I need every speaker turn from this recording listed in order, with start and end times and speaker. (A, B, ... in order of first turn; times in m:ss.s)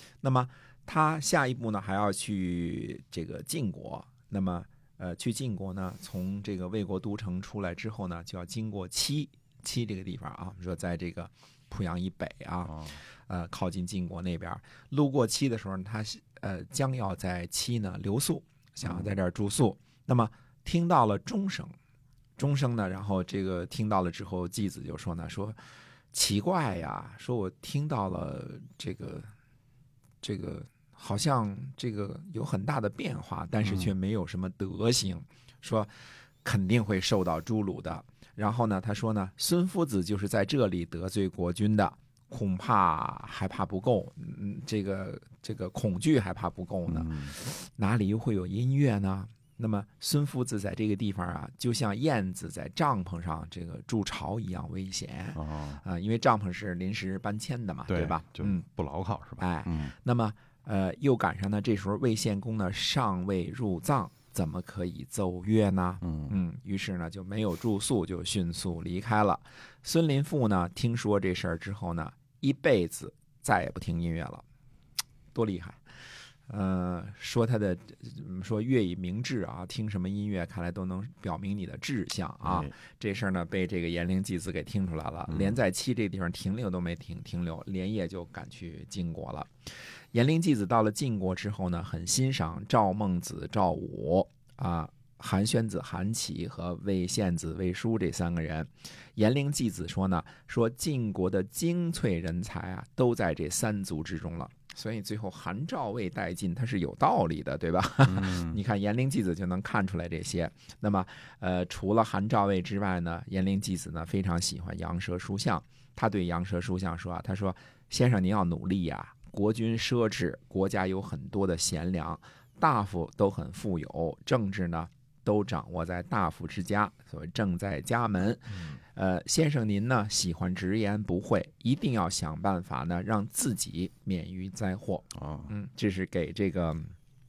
0:00.2-0:21.7 A
0:18.8-0:19.1 B
0:22.4-0:25.6 A
0:26.1-0:29.3 A
0:30.2-0:35.9 A
0:33.6-0:33.9 B
0:36.4-0:58.6 A
0:46.9-0:47.4 B
0:55.4-0:55.8 B
0:57.9-0:59.9 B
0:59.4-1:14.4 A
1:06.0-1:06.3 B
1:15.3-1:15.8 A
1:16.5-1:29.5 A
1:22.4-1:22.7 B
1:25.3-1:25.5 B
1:30.1-2:16.9 A
1:48.1-1:48.6 B
2:15.2-2:15.5 B